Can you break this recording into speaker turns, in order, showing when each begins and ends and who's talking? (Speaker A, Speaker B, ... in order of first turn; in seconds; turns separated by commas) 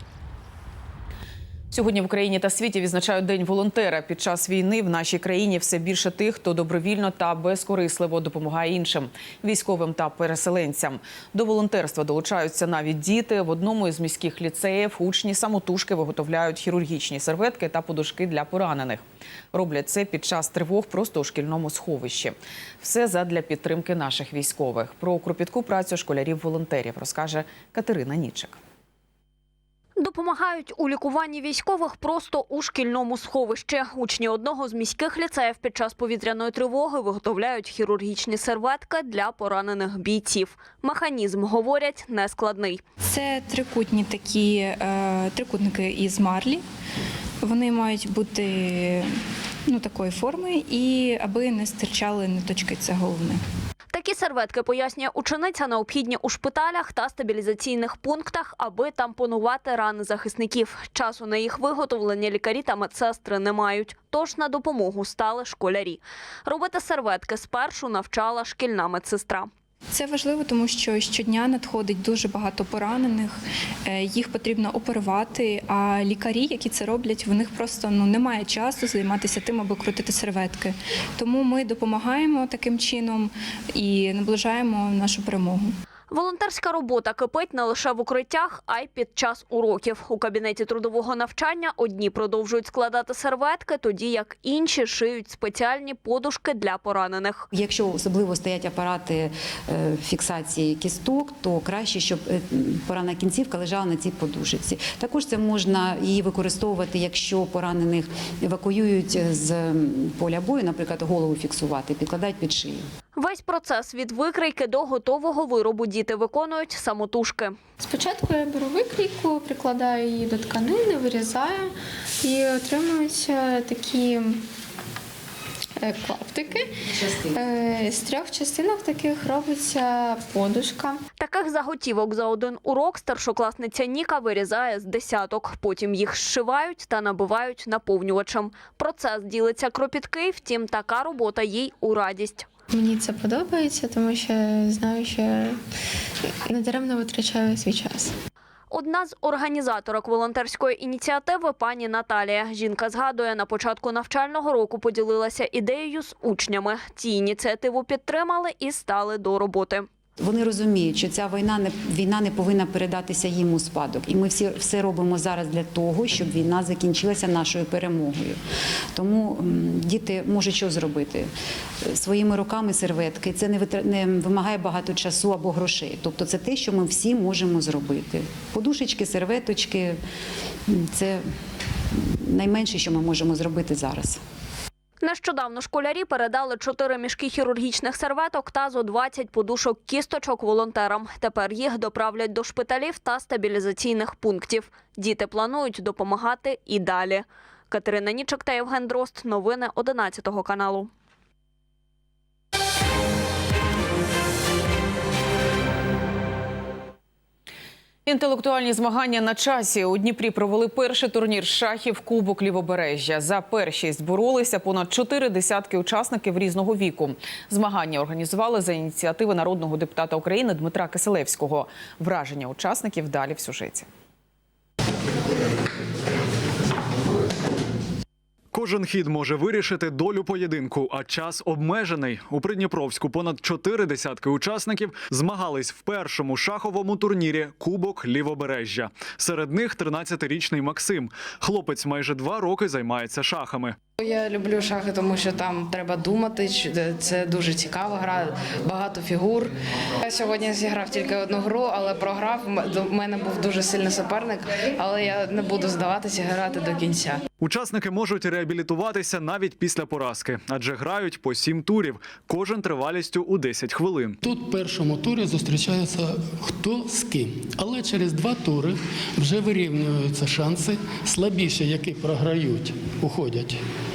Speaker A: 1.7-28.6, Speaker B: 30.0-42.8, Speaker C: 43.0-46.6, Speaker C: 47.4-49.1, Speaker C: 49.7-53.4, Speaker B: 53.9-69.5, Speaker C: 69.9-85.7, Speaker B: 86.1-97.4, Speaker D: 97.5-112.8, Speaker B: 113.2-117.6, Speaker E: 117.8-124.4, Speaker E: 125.8-131.0, Speaker B: 131.2-142.5, Speaker E: 142.7-145.6, Speaker E: 146.4-148.1, Speaker B: 148.7-159.9, Speaker D: 160.2-168.4, Speaker D: 168.9-171.3, Speaker D: 171.8-180.0, Speaker D: 180.7-181.2, Speaker D: 182.1-184.2, Speaker B: 185.0-200.9, Speaker A: 208.1-223.9, Speaker F: 228.5-243.8, Speaker G: 244.0-257.2, Speaker F: 257.4-264.2, Speaker H: 264.2-273.6